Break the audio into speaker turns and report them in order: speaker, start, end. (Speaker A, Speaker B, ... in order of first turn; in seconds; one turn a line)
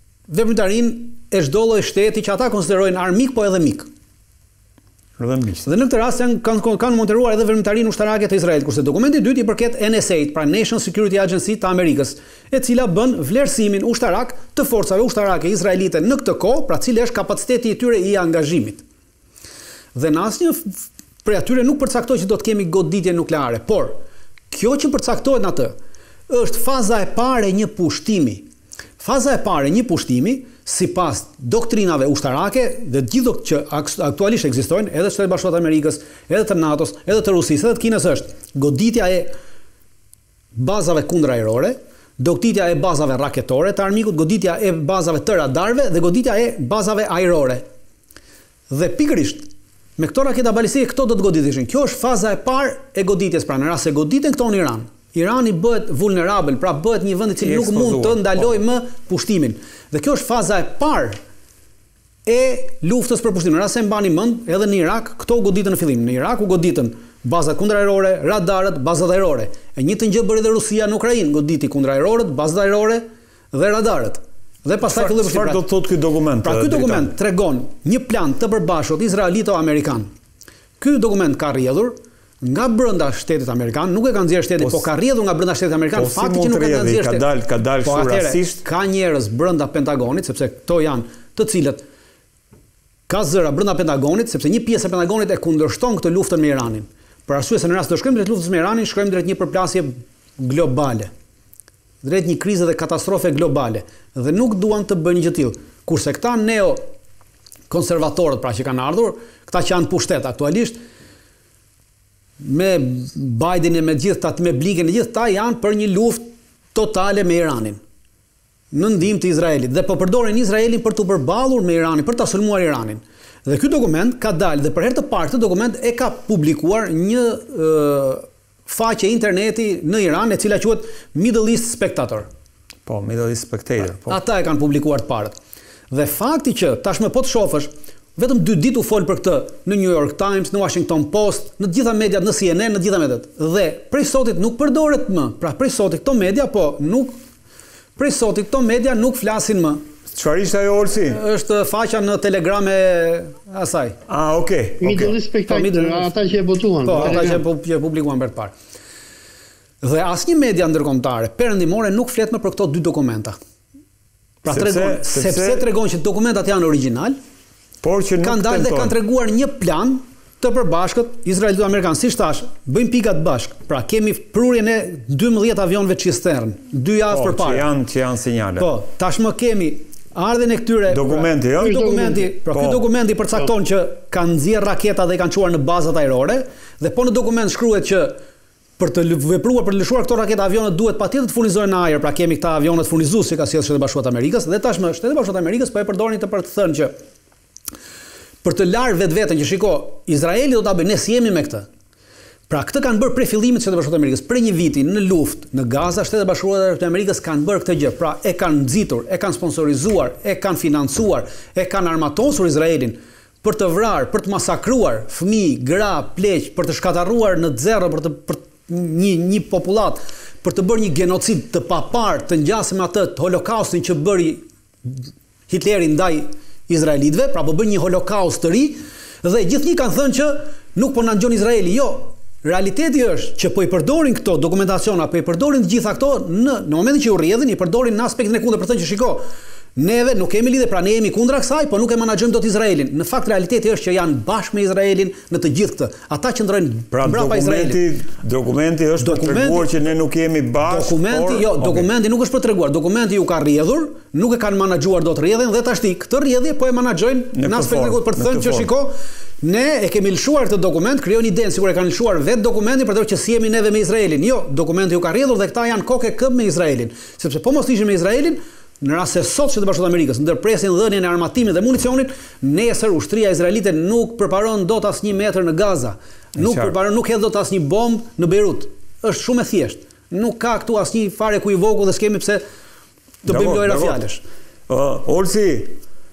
Speaker A: 0.3-3.9
Speaker B: 5.2-5.7
Speaker A: 5.6-18.8
Speaker A: 19.9-24.0
Speaker A: 24.5-25.7
Speaker A: 26.3-28.4
Speaker A: 29.0-39.3
Speaker A: 40.5-47.6
Speaker A: 48.7-61.2
Speaker B: 57.4-58.6
Speaker A: 62.2-75.6
Speaker B: 74.8-77.1
Speaker A: 76.4-80.1
Speaker A: 80.8-87.2
Speaker B: 84.6-84.9
Speaker B: 85.9-88.6
Speaker A: 87.8-91.8
Speaker A: 93.1-101.1
Speaker A: 102.0-106.8
Speaker A: 107.7-110.8
Speaker A: 112.4-117.8
Speaker A: 118.7-132.3
Speaker B: 132.8-134.2
Speaker A: 133.9-135.3
Speaker A: 135.9-147.1
Speaker A: 147.9-149.8
Speaker B: 150.1-151.2
Speaker A: 151.1-154.0
Speaker B: 154.1-155.1
Speaker C: 154.8-157.4
Speaker A: 155.5-156.1
Speaker A: 156.8-158.5
Speaker A: 159.8-163.4
Speaker A: 164.4-167.2
Speaker B: 164.4-165.7
Speaker B: 167.8-168.9
Speaker A: 168.2-177.7
Speaker B: 177.1-178.7
Speaker A: 178.6-188.2
Speaker B: 180.9-181.9
Speaker C: 181.6-182.3
Speaker B: 182.4-182.8
Speaker A: 188.8-196.9
Speaker A: 198.4-201.7
Speaker A: 202.5-239.2
Speaker A: 239.8-247.8
Speaker B: 246.9-251.9
Speaker A: 249.0-249.7
Speaker A: 250.6-282.4
Speaker B: 257.3-258.7
Speaker B: 276.4-276.7
Speaker A: 283.2-284.2
Speaker B: 283.2-284.0
Speaker B: 284.7-285.8